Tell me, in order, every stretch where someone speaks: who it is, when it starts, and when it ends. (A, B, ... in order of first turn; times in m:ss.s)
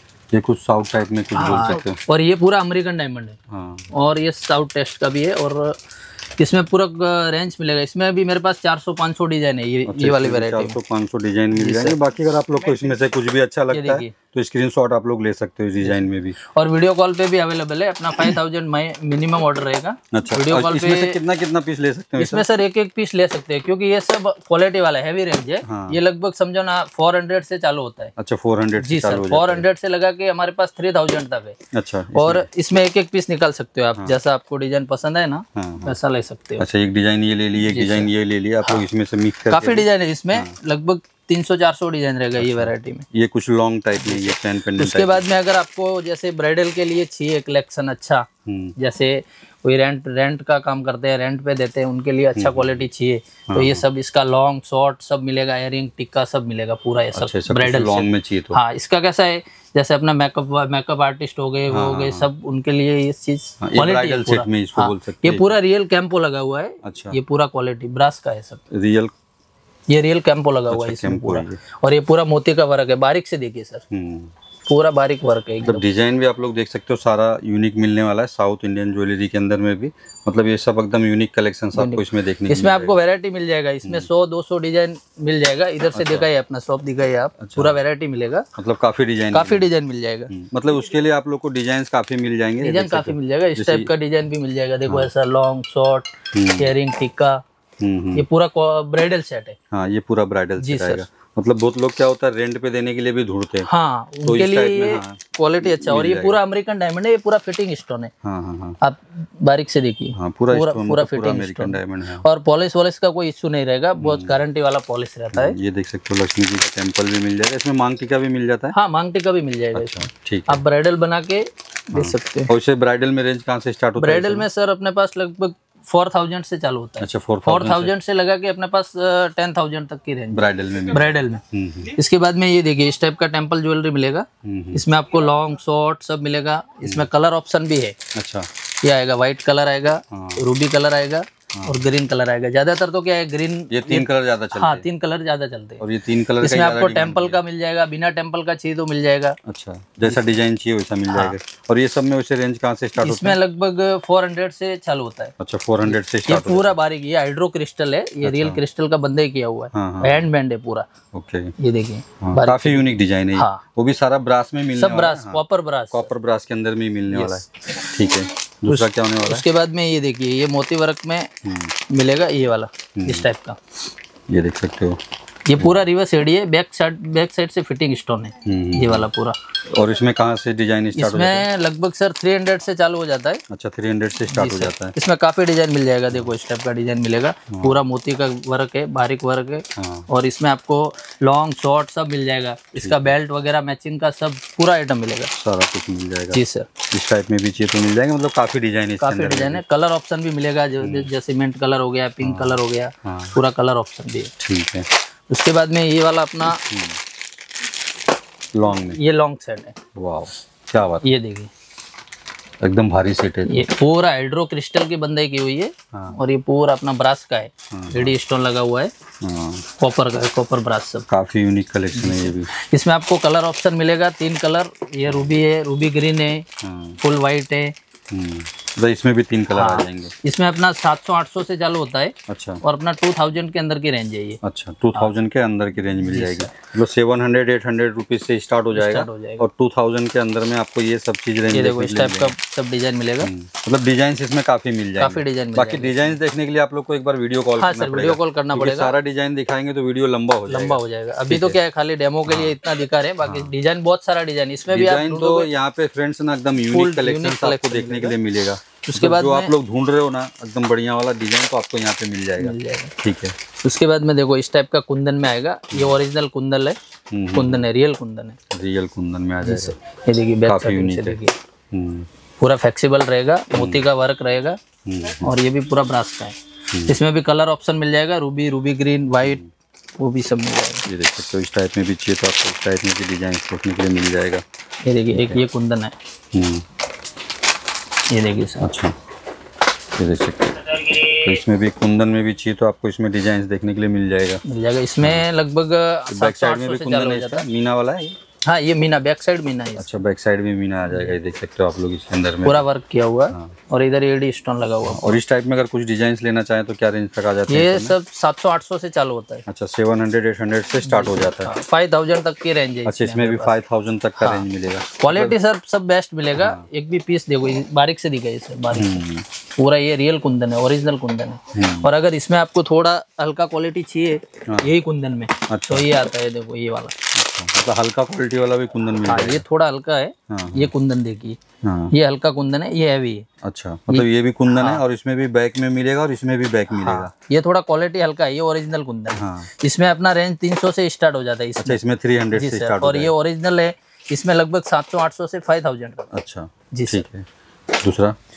0:00.3-0:02.0 A
0:01.3-0:03.4 B
0:03.5-0:03.9 A
0:03.9-0:05.8 B
0:06.4-0:10.8 B
0:09.9-0:16.4 A
0:11.5-0:12.0 B
0:13.7-0:14.1 B
0:15.8-0:21.2 B
0:20.1-0:22.5 A
0:22.2-0:28.1 B
0:25.6-0:26.0 A
0:28.2-0:29.6 A
0:28.8-0:31.6 B
0:31.7-0:32.5 A
0:32.1-0:36.6 B
0:35.6-0:36.0 A
0:36.6-0:40.5 A
0:37.6-0:38.1 B
0:39.5-0:43.0 B
0:42.4-0:45.2 A
0:44.0-1:08.6 B
0:48.4-0:48.8 A
0:52.4-0:52.9 A
0:53.5-0:53.8 A
0:57.1-0:58.6 A
1:01.7-1:02.3 A
1:03.6-1:05.5 A
1:06.8-1:07.2 A
1:08.7-1:09.1 A
1:09.9-1:13.8 B
1:10.7-1:11.6 A
1:13.9-1:14.3 A
1:14.6-1:15.8 B
1:15.6-1:23.0 A
1:21.7-1:28.4 B
1:25.9-1:26.3 A
1:27.4-1:27.8 A
1:28.6-1:29.7 A
1:29.3-1:30.3 B
1:30.3-1:33.9 A
1:32.6-1:37.4 B
1:36.3-1:36.7 A
1:37.8-1:38.2 A
1:38.1-1:39.6 B
1:39.7-1:43.7 A
1:40.6-1:41.0 B
1:43.6-1:48.1 B
1:44.2-1:46.4 A
1:48.2-1:48.8 A
1:48.8-1:55.6 B
1:50.2-1:52.2 A
1:54.0-1:54.4 A
1:55.3-1:58.7 A
1:58.7-2:02.5 B
1:59.7-2:00.6 A
2:01.9-2:04.5 A
2:04.0-2:18.0 B
2:07.0-2:07.9 A
2:10.3-2:12.0 A
2:14.4-2:14.8 A
2:18.1-2:18.5 A
2:18.8-2:25.8 B
2:20.1-2:20.4 A
2:23.7-2:24.8 A
2:25.8-2:27.4 A
2:26.4-2:29.4 B
2:29.4-2:33.4 A
2:30.0-2:30.3 B
2:33.0-2:35.3 B
2:35.4-2:36.7 A
2:35.8-2:40.9 B
2:38.2-2:38.6 A
2:39.7-2:40.3 A
2:41.1-2:41.5 A
2:41.6-2:43.6 B
2:42.2-2:49.4 A
2:44.8-2:46.1 B
2:47.1-2:47.4 B
2:48.7-2:51.3 B
2:51.4-2:51.7 A
2:51.9-2:53.6 B
2:53.0-2:53.3 A
2:54.3-2:55.0 A
2:55.5-2:59.4 B
2:58.4-2:59.1 A
2:59.7-3:01.4 A
3:01.0-3:03.4 B
3:03.5-3:04.9 A
3:04.3-3:15.3 B
3:07.5-3:07.8 A
3:09.8-3:10.1 A
3:12.8-3:13.1 A
3:15.3-3:19.6 A
3:16.3-3:16.7 B
3:19.0-3:24.3 B
3:20.8-3:21.1 A
3:22.2-3:23.4 A
3:24.4-3:24.9 A
3:25.3-3:26.6 B
3:26.6-3:27.0 A
3:28.5-3:29.0 A
3:28.9-3:29.8 B
3:29.9-3:31.0 A
3:31.0-3:31.5 B
3:32.6-3:33.7 A
3:33.5-3:38.9 B
3:37.7-3:38.2 A
3:39.2-3:39.6 A
3:39.8-3:41.0 B
3:41.1-3:42.5 A
3:41.9-3:46.4 B
3:45.0-3:45.4 A
3:46.6-3:47.0 A
3:47.0-3:47.7 B
3:48.1-3:50.1 A
3:49.5-3:54.4 B
3:52.3-3:52.6 A
3:54.4-4:02.3 A
3:56.0-3:56.5 B
3:58.7-3:59.4 B
4:01.5-4:03.3 B
4:03.2-4:11.6 A
4:05.0-4:06.1 B
4:07.6-4:09.0 B
4:10.5-4:15.5 B
4:12.2-4:12.6 A
4:13.2-4:13.5 A
4:14.7-4:23.4 A
4:16.6-4:18.2 B
4:18.8-4:19.5 B
4:22.4-4:22.9 B
4:23.6-4:26.8 B
4:27.1-4:27.7 A
4:27.3-4:28.4 B
4:28.5-4:29.8 A
4:29.4-4:31.3 B
4:30.4-4:31.2 A
4:31.7-4:32.1 A
4:32.4-4:34.6 B
4:33.5-4:33.9 A
4:34.8-4:35.3 A
4:35.2-4:39.4 B
4:36.7-4:37.0 A
4:39.2-4:39.5 A
4:40.0-4:40.8 B
4:40.8-4:44.4 A
4:44.8-4:45.9 B
4:45.1-4:45.4 A
4:46.3-4:46.6 A
4:48.1-4:48.7 B
4:48.6-4:48.9 A
4:50.0-4:54.4 A
4:54.4-4:57.4 B
4:55.0-4:55.2 A
4:56.1-4:58.2 A
4:58.5-5:00.0 B
4:59.8-5:02.7 A
5:00.9-5:01.2 B
5:02.4-5:05.2 B
5:04.8-5:08.0 A
5:07.5-5:09.4 B
5:09.5-5:11.5 A
5:10.8-5:13.6 B
5:12.8-5:15.4 A
5:14.2-5:14.4 B
5:15.0-5:19.0 B
5:16.4-5:16.6 A
5:18.7-5:19.2 A
5:19.6-5:26.9 B
5:21.5-5:21.9 A
5:25.5-5:25.9 A
5:27.1-5:29.4 A
5:29.0-5:31.4 B
5:30.3-5:30.7 A
5:31.6-5:31.9 A
5:31.9-5:33.2 B
5:33.4-5:37.1 A
5:33.9-5:34.8 B
5:36.7-5:41.8 B
5:39.1-5:39.5 A
5:41.6-5:43.1 A
5:42.3-5:46.1 B
5:46.1-5:48.2 A
5:46.7-5:47.0 B